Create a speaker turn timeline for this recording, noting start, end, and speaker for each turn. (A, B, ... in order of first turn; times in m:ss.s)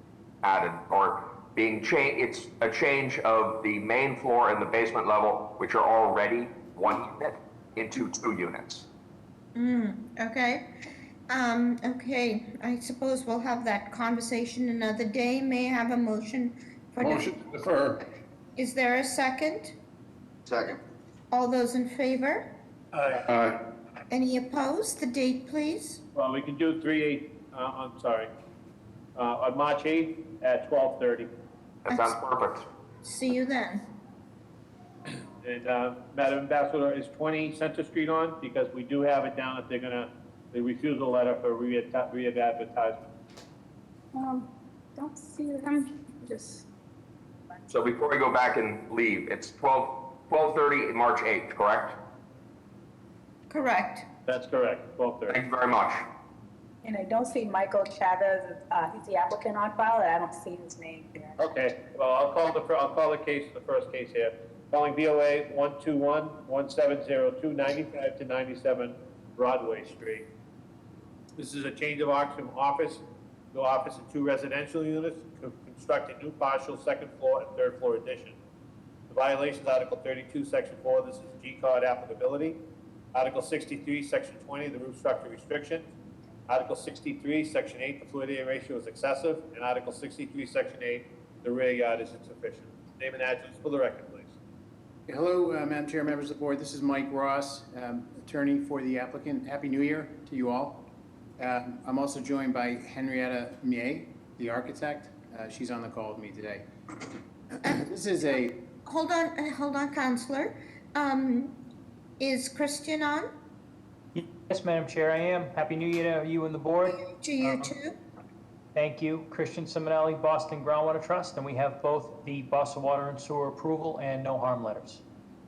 0:00.4-0:08.9 A
0:09.5-0:10.6 B
0:11.3-0:17.5 B
0:17.0-0:18.0 C
0:18.6-0:19.7 B
0:20.4-0:20.8 C
0:21.3-0:22.5 B
0:22.9-0:23.6 C
0:24.1-0:26.0 B
0:26.1-0:28.3 D
0:29.2-0:31.3 D
0:31.8-0:32.7 A
0:31.9-0:32.2 B
0:33.0-0:33.8 B
0:35.4-0:43.1 D
0:44.1-0:46.6 E
0:47.7-0:52.0 A
0:53.5-0:54.0 B
0:54.3-0:55.4 D
0:55.3-0:56.0 A
0:56.8-1:01.4 E
1:01.4-1:10.2 D
1:11.4-1:18.4 D
1:19.1-1:22.6 D
1:23.1-1:25.9 D
1:26.5-1:34.3 D
1:35.1-1:40.8 F
1:41.4-1:46.6 F
1:47.6-1:48.6 F
1:48.8-1:51.5 B
1:52.2-1:53.3 B
1:54.1-1:57.7 G
1:56.9-1:57.9 B
1:58.7-2:05.0 G